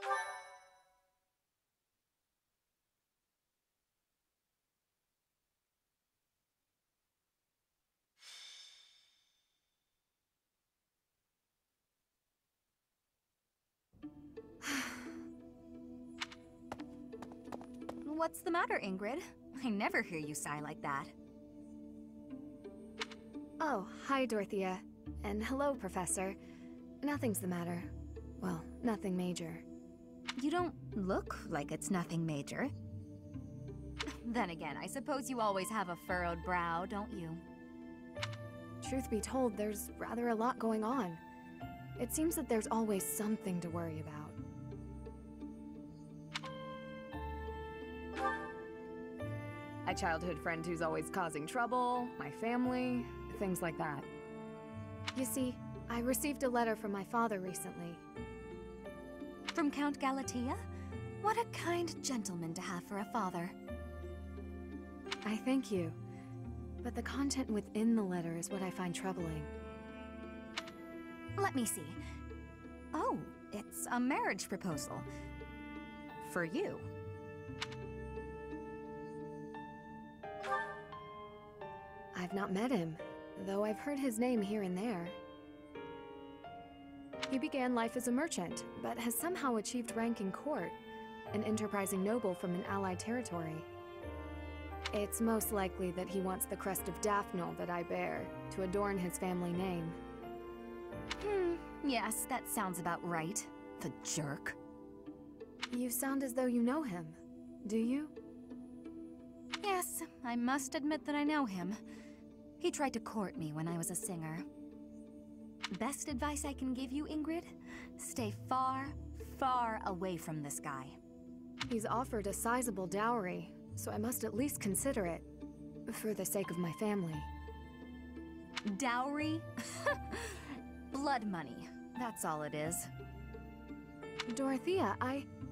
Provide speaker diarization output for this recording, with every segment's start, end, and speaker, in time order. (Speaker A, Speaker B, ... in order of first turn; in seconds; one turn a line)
Speaker A: 14.6-15.0
Speaker B: 18.0-21.1
Speaker A: 23.6-26.4
Speaker A: 27.0-29.6
Speaker B: 30.4-32.7
Speaker B: 34.2-37.4
Speaker A: 38.8-41.2
Speaker A: 42.0-44.4
Speaker A: 49.8-54.1
Speaker A: 55.1-58.0
Speaker B: 59.5-60.6
Speaker B: 61.2-63.5
Speaker A: 65.2-66.0
Speaker A: 66.8-69.5
Speaker B: 71.3-72.0
Speaker B: 72.9-75.1
Speaker B: 76.2-76.8
Speaker A: 82.1-85.2
Speaker A: 87.3-90.8
Speaker A: 91.3-93.7
Speaker A: 94.9-100.0
Speaker B: 101.2-104.6
Speaker A: 105.7-108.1
Speaker B: 109.6-111.8
Speaker B: 112.6-114.5
Speaker B: 115.7-121.0
Speaker A: 121.7-125.2
Speaker A: 125.9-127.3
Speaker B: 128.6-132.9
Speaker A: 134.3-135.3